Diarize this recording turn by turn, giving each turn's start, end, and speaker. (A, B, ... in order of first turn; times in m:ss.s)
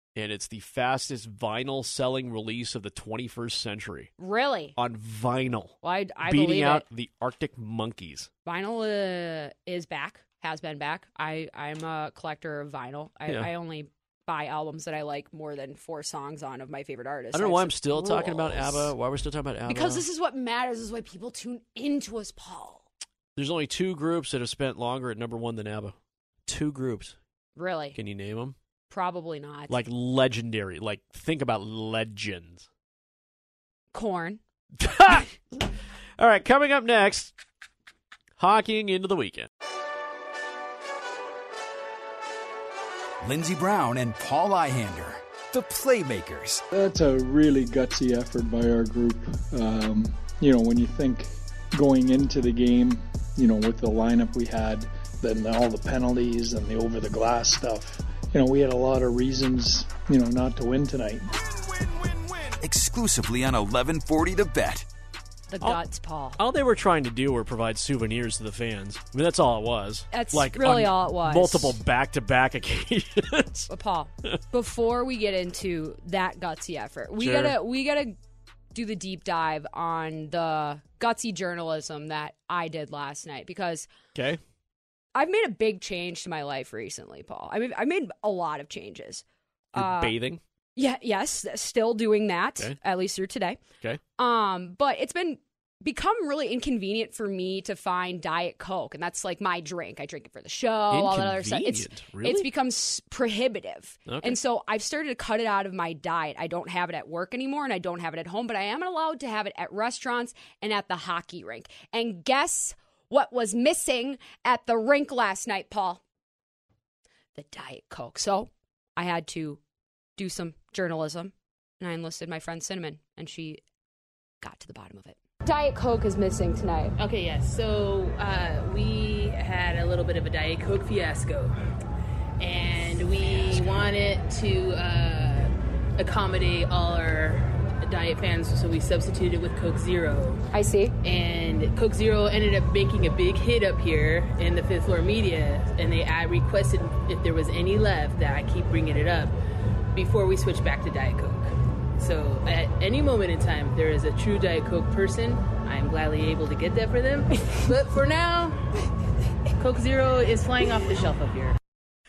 0:00.2-0:04.1 A
0:04.2-0:04.8 B
0:04.8-0:08.3 A
0:05.8-0:06.8 B
0:08.5-0:18.9 B
0:17.3-0:20.0 A
0:19.7-0:22.9 B
0:23.4-0:26.0 A
0:26.5-0:27.2 A
0:27.6-0:28.0 B
0:28.0-0:28.6 A
0:28.9-0:29.8 B
0:29.7-0:32.7 A
0:33.9-0:34.4 B
0:34.8-0:37.3 A
0:38.4-0:39.5 A
0:43.2-0:46.6 C
0:46.7-1:01.3 D
1:02.3-1:04.9 C
1:05.5-1:06.4 B
1:06.4-1:13.7 A
1:10.1-1:11.8 B
1:13.7-1:18.2 B
1:17.2-1:17.6 A
1:18.7-1:23.9 B
1:24.2-1:24.4 A
1:25.2-1:30.1 B
1:29.8-1:30.4 A
1:30.8-1:33.6 B
1:34.2-1:56.0 B
1:40.9-1:42.5 A
1:44.1-1:44.4 A
1:57.4-1:59.6 B
2:00.2-2:03.6 B
2:04.4-2:06.9 B
2:07.0-2:11.5 E
2:12.4-2:20.4 E
2:20.5-2:21.0 B
2:21.0-2:29.3 E
2:29.9-2:38.6 E
2:39.6-2:41.6 E